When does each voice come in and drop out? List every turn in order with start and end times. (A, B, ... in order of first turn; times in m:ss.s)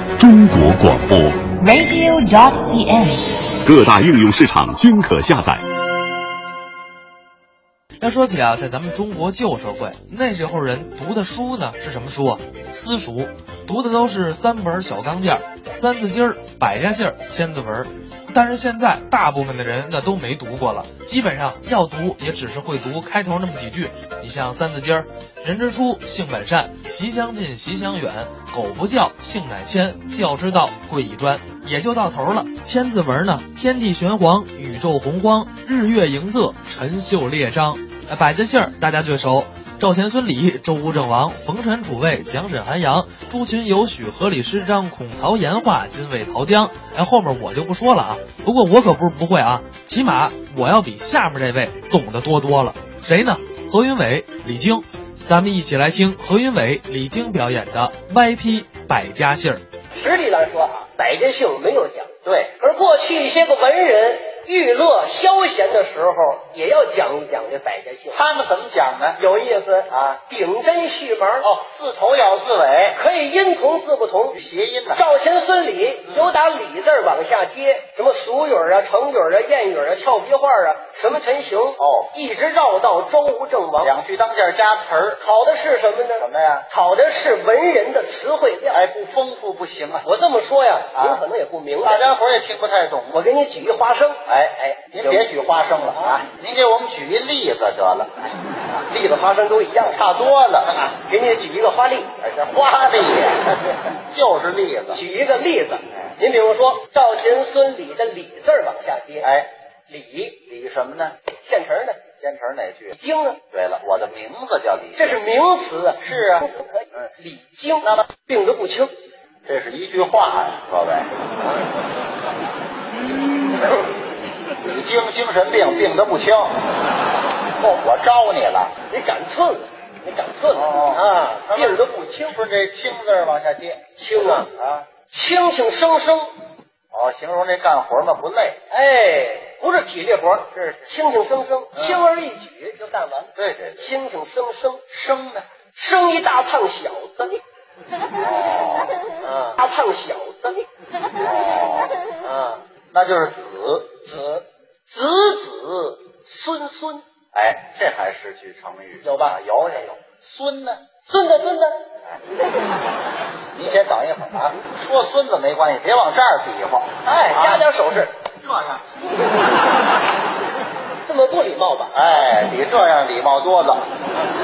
0:00.2-0:01.5 A
0:01.5-0:03.5 B
0:03.6-0:05.6 A
0:08.0-0:59.6 C
0:59.9-1:08.2 D
1:02.2-1:02.5 E
1:08.1-1:09.2 E
1:09.2-1:11.5 D
1:09.9-1:10.2 E
1:11.4-1:13.0 E
1:12.9-1:14.4 D
1:14.3-1:15.0 E
1:14.9-1:23.9 D
1:21.8-1:22.1 E
1:23.8-1:25.2 E
1:25.2-1:28.9 D
1:26.2-1:26.7 E
1:28.7-1:30.1 E
1:30.0-1:32.0 D
1:30.9-1:31.2 E
1:31.8-1:33.2 E
1:33.1-1:34.2 D
1:34.3-1:38.1 E
1:35.0-1:35.3 D
1:35.9-1:36.2 D
1:38.9-1:40.0 D
1:39.8-1:41.0 E
1:41.0-1:42.1 D
1:42.2-1:45.0 E
1:44.9-1:49.3 D
1:49.2-1:49.5 E
1:49.9-1:50.4 D
1:50.3-1:51.2 E
1:51.4-1:52.0 D
1:52.2-1:53.0 E
1:52.9-1:53.4 D
1:53.5-1:55.2 E
1:55.0-1:58.9 D
1:56.0-1:56.5 E
1:59.4-2:01.1 E
2:04.6-2:06.6 E
2:07.6-2:08.8 E
2:08.9-2:12.3 D
2:10.5-2:14.9 E
2:14.0-2:14.5 D
2:15.1-2:16.3 D
2:16.9-2:18.6 E
2:18.7-2:24.8 D
2:20.5-2:20.9 E
2:21.7-2:22.0 E
2:23.4-2:23.8 E
2:24.9-2:25.4 E
2:25.7-2:27.4 D
2:28.1-2:29.0 E
2:29.2-2:30.6 D
2:31.1-2:32.1 E
2:32.2-2:32.6 D
2:32.9-2:34.0 E
2:34.1-2:37.0 D
2:37.3-2:40.8 E
2:39.0-2:39.4 D
2:41.0-2:41.8 D
2:43.5-2:47.7 E
2:47.0-2:48.1 D
2:48.4-2:48.8 E
2:51.0-2:52.0 D
2:51.9-2:53.8 E